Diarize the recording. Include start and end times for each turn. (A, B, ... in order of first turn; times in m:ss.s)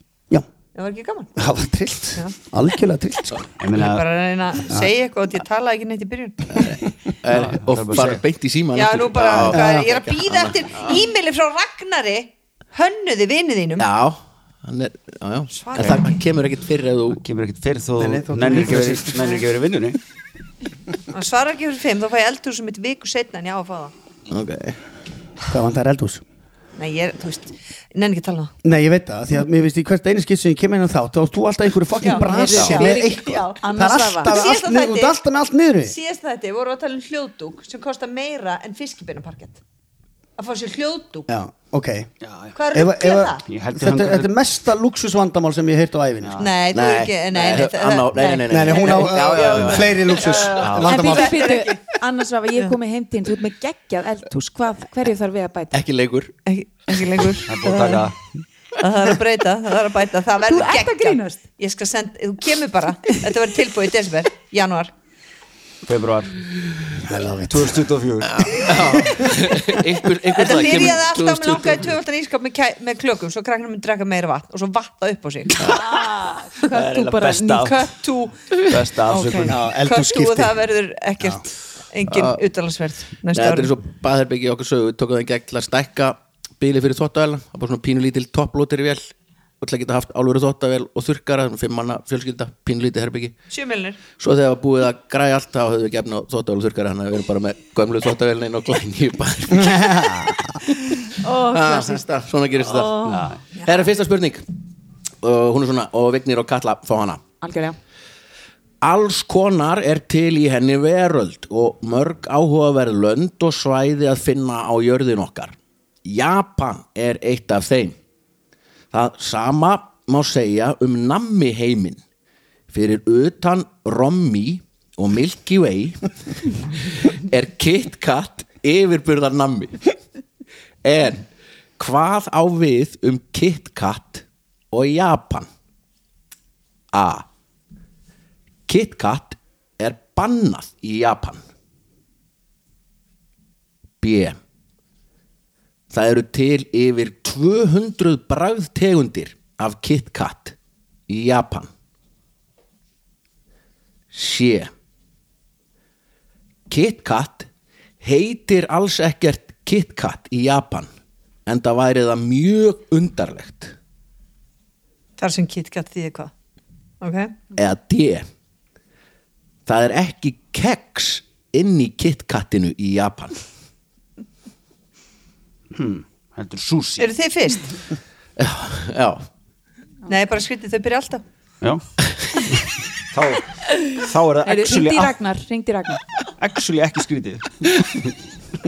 0:00.8-0:01.4 A
0:01.4-0:03.5 B
0:03.6-0:04.1 C
0:03.8-0:06.6 A
0:06.5-0:11.0 D
0:07.3-0:08.2 C
0:08.7-0:13.9 A
0:09.4-0:09.9 B
0:13.8-0:17.2 D
0:15.5-0:16.1 A
0:17.1-0:20.0 C
0:18.0-0:19.4 B
0:21.1-0:23.9 A
0:24.3-0:24.8 D
0:25.5-0:26.2 B
0:26.8-0:28.5 A
0:28.6-0:36.0 B
0:32.0-0:33.6 A
0:32.1-0:34.4 E
0:34.2-0:35.2 A
0:35.8-0:39.6 A
0:40.4-0:41.3 A
0:41.3-0:42.1 B
0:42.2-0:42.6 C
0:42.6-0:43.4 A
0:42.7-0:46.4 B
0:43.5-0:44.3 C
0:46.2-0:46.5 C
0:46.4-0:51.9 A
0:46.7-0:50.2 D
0:48.5-0:51.4 B
0:50.6-0:51.0 C
0:50.8-0:55.8 E
0:55.7-0:56.3 D
0:56.4-0:58.1 A
0:57.4-0:58.2 C
0:58.8-1:04.9 A
1:00.4-1:01.4 E
1:05.9-1:08.7 C
1:07.0-1:07.8 B
1:08.3-1:11.9 D
1:08.7-1:09.8 B
1:10.3-1:15.8 A
1:15.6-1:17.8 E
1:16.6-1:17.9 C
1:17.6-1:18.4 A
1:18.7-1:19.6 C
1:19.1-1:19.5 E
1:19.4-1:20.6 B
1:19.8-1:23.7 A
1:22.1-1:22.4 D
1:23.3-1:29.1 D
1:29.6-1:33.4 D
1:33.5-1:34.0 A
1:34.1-1:40.7 D
1:39.5-1:40.4 B
1:41.2-1:42.0 E
1:41.3-1:44.4 D
1:42.6-1:43.9 A
1:43.0-1:43.4 C
1:45.2-1:47.2 D
1:47.4-1:47.8 E
1:48.8-1:58.0 D
1:58.9-2:02.0 D
2:02.7-2:09.9 D
2:10.8-2:15.5 D
2:16.9-2:17.3 D
2:18.7-2:21.4 D
2:24.0-2:24.4 D
2:25.9-2:30.6 D
2:31.1-2:31.7 D
2:34.1-2:34.7 D
2:36.7-2:37.5 D
2:38.0-2:40.9 D
2:41.4-2:43.8 D
2:45.2-2:46.3 A
2:47.0-2:47.4 A
2:47.6-2:48.3 D
2:49.6-2:53.4 D
2:55.7-2:57.1 C
2:57.0-2:57.8 A
2:58.4-2:59.2 D
3:00.1-3:01.2 A
3:02.4-3:05.1 C
3:03.7-3:06.0 E
3:06.4-3:08.1 C